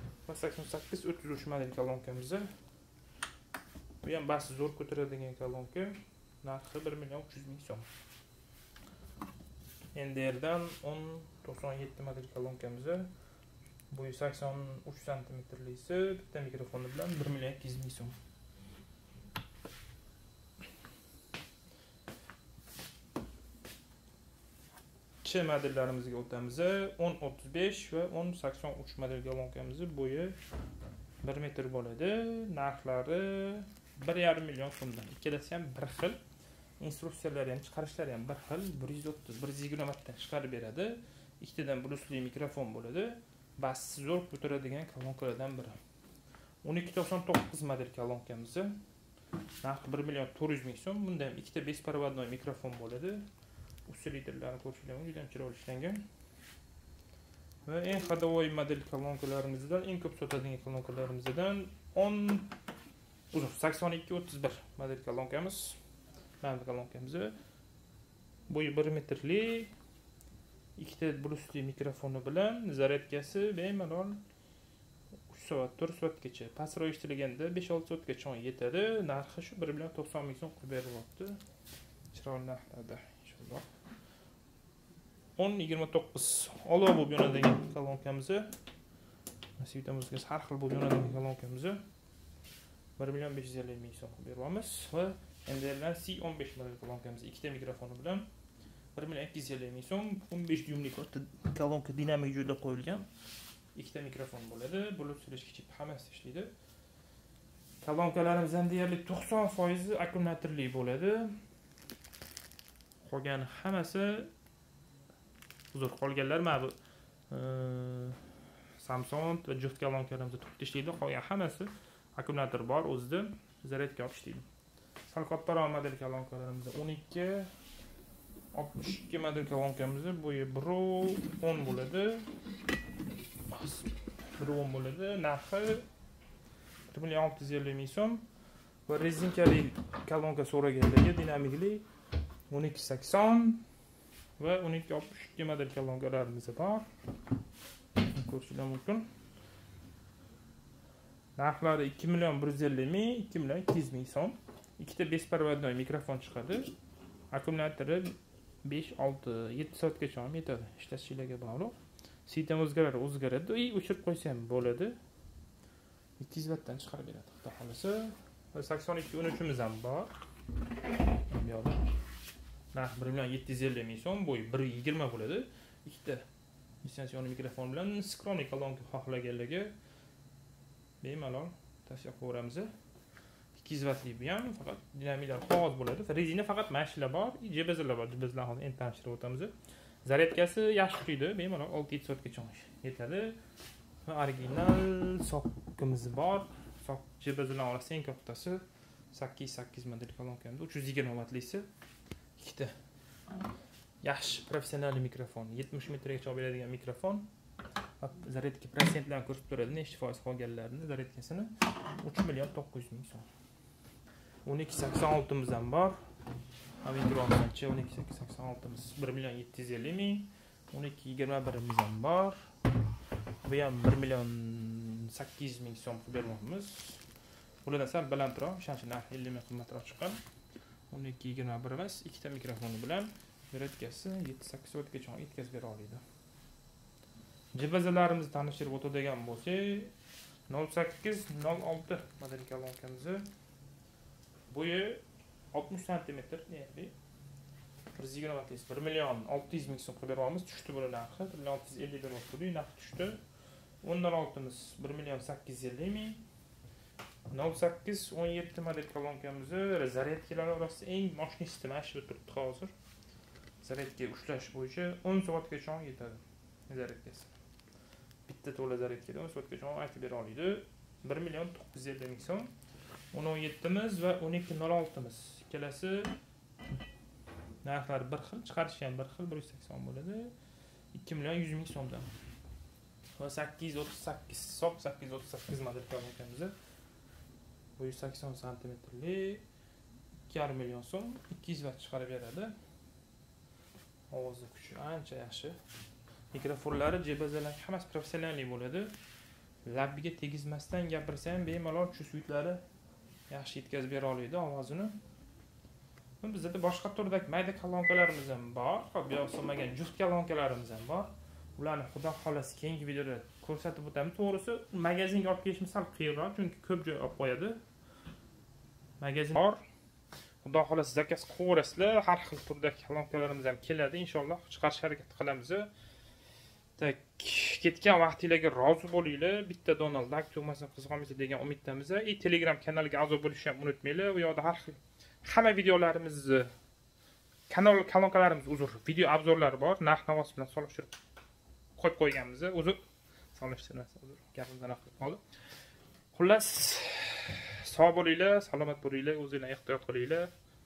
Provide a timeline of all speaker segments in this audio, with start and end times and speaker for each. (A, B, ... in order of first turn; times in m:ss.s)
0:00.3-0:02.5 A
0:04.0-0:07.9 A
0:10.0-0:13.1 A
0:13.9-0:18.2 A
0:25.2-0:30.4 A
0:31.2-0:36.2 A
0:36.8-0:45.8 A
0:46.6-0:48.8 A
0:49.6-0:53.2 A
0:53.9-0:56.0 A
0:57.7-1:02.5 A
1:03.3-1:05.8 A
1:06.4-1:07.3 A
1:08.5-1:09.7 A
1:10.8-1:14.2 A
1:15.3-1:21.4 A
1:22.1-1:23.7 A
1:25.4-1:28.5 A
1:29.6-1:31.8 A
1:33.0-1:38.3 A
1:39.0-1:43.1 A
1:43.8-1:46.5 A
1:47.8-1:51.3 A
1:53.0-1:54.3 A
1:55.7-1:56.8 A
1:57.3-1:58.2 A
1:58.8-2:04.5 A
2:05.1-2:07.5 A
2:08.5-2:12.3 A
2:13.5-2:13.9 A
2:14.4-2:15.8 A
2:16.9-2:18.2 A
2:18.9-2:21.8 A
2:22.5-2:23.6 A
2:24.4-2:26.9 A
2:28.0-2:29.1 A
2:31.4-2:36.7 A
2:37.3-2:45.0 A
2:46.2-2:50.1 A
2:51.3-2:51.8 A
2:52.7-2:56.2 A
2:56.8-2:59.7 A
3:01.0-3:02.7 A
3:03.6-3:09.5 A
3:10.0-3:13.4 A
3:14.0-3:21.7 A
3:22.4-3:22.7 A
3:24.0-3:27.3 A
3:28.0-3:33.2 A
3:34.4-3:36.0 A
3:36.8-3:42.4 A
3:43.4-3:47.0 A
3:47.6-3:50.2 A
3:50.9-3:56.0 A
3:57.5-3:59.9 A
4:00.5-4:03.3 A
4:04.5-4:07.0 A
4:08.0-4:13.2 A
4:13.8-4:16.2 A
4:17.3-4:22.7 A
4:23.6-4:27.3 A
4:28.3-4:32.5 A
4:33.1-4:36.1 A
4:37.6-4:40.3 A
4:40.9-4:42.1 A
4:43.2-4:46.5 A
4:47.8-4:49.4 A
4:50.3-4:52.5 A
4:54.1-4:55.6 A
4:56.3-4:58.9 A
4:59.6-5:02.6 A
5:03.3-5:05.0 A
5:06.2-5:17.6 A
5:19.0-5:19.6 A
5:20.4-5:25.7 A
5:26.8-5:36.5 A
5:37.5-5:41.0 A
5:41.8-5:42.8 A
5:43.3-5:45.2 A
5:46.1-5:50.3 A